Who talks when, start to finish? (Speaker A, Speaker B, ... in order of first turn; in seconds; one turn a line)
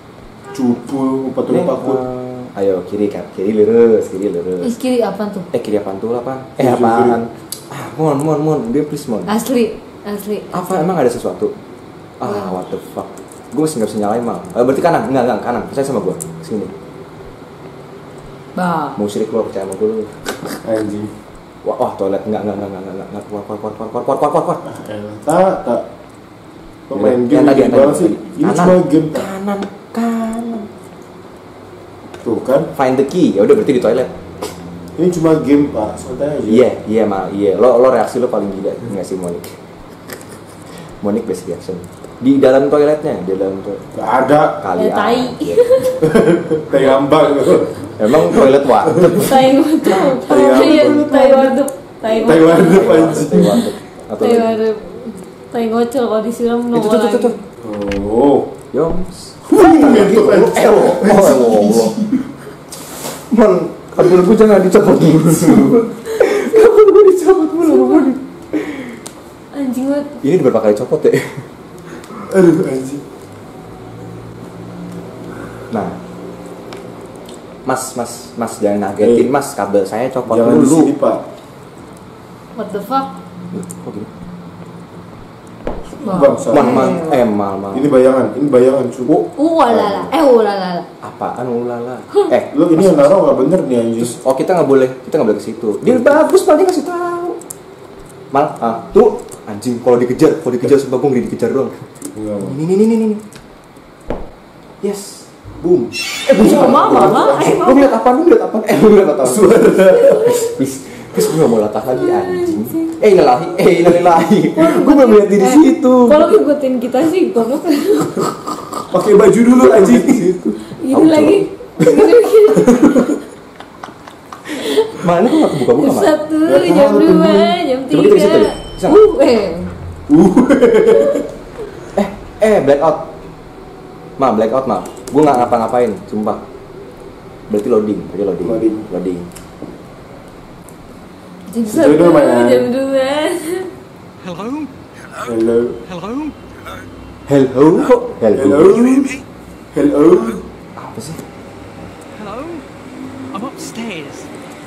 Speaker A: 0.5-2.0
Speaker B: 1.5-4.8
Speaker C: 4.6-5.5
Speaker B: 5.5-9.4
Speaker A: 6.6-7.2
Speaker C: 9.3-10.5
Speaker B: 10.5-11.5
Speaker B: 12.2-16.7
Speaker C: 18.6-19.0
Speaker B: 19.0-20.6
Speaker A: 20.6-21.1
Speaker B: 21.6-24.6
Speaker A: 24.6-25.8
Speaker A: 26.9-29.3
Speaker B: 26.9-30.7
Speaker A: 32.2-32.7
Speaker B: 32.8-34.5
Speaker A: 35.0-36.7
Speaker B: 36.5-39.5
Speaker B: 40.7-43.8
Speaker A: 44.0-44.6
Speaker B: 44.6-45.7
Speaker C: 44.8-46.0
Speaker A: 46.0-48.5
Speaker B: 48.0-49.5
Speaker C: 49.1-53.0
Speaker A: 49.9-53.7
Speaker B: 52.6-54.5
Speaker C: 54.2-57.4
Speaker B: 56.7-57.4
Speaker A: 57.6-58.5
Speaker B: 58.7-62.0
Speaker A: 59.5-62.2
Speaker B: 63.0-69.0
Speaker A: 65.3-65.8
Speaker C: 66.2-66.5
Speaker C: 67.6-68.1
Speaker C: 69.5-70.2
Speaker B: 70.2-71.5
Speaker A: 72.1-73.0
Speaker B: 75.7-76.0
Speaker B: 77.7-80.9
Speaker A: 79.0-79.3
Speaker A: 80.3-81.2
Speaker C: 82.5-83.1
Speaker B: 83.5-84.1
Speaker A: 85.9-87.1
Speaker C: 86.0-87.2
Speaker B: 86.5-87.9
Speaker A: 87.7-89.1
Speaker C: 89.3-90.9
Speaker A: 89.8-90.2
Speaker B: 91.0-93.2
Speaker A: 92.5-94.2
Speaker B: 94.0-97.4
Speaker B: 98.3-101.9
Speaker A: 102.1-102.6
Speaker B: 102.4-103.2
Speaker B: 104.8-116.4
Speaker C: 106.3-107.9
Speaker A: 106.4-107.3
Speaker A: 109.2-110.4
Speaker C: 111.9-113.0
Speaker C: 114.0-118.3
Speaker A: 118.9-120.3
Speaker B: 119.6-122.0
Speaker C: 120.7-123.1
Speaker A: 122.6-123.1
Speaker B: 124.7-126.1
Speaker C: 125.7-129.7
Speaker A: 126.5-127.6
Speaker B: 127.9-129.0
Speaker A: 130.1-131.3
Speaker B: 131.9-133.1
Speaker B: 134.2-136.4
Speaker B: 137.5-139.3
Speaker A: 138.4-138.9
Speaker C: 141.5-143.7
Speaker A: 141.7-142.7
Speaker D: 144.2-144.7
Speaker A: 145.2-145.8
Speaker D: 145.9-146.4
Speaker B: 147.3-148.9
Speaker A: 148.3-149.2
Speaker A: 149.7-150.5
Speaker B: 150.8-151.2
Speaker D: 152.1-152.7
Speaker D: 153.3-154.3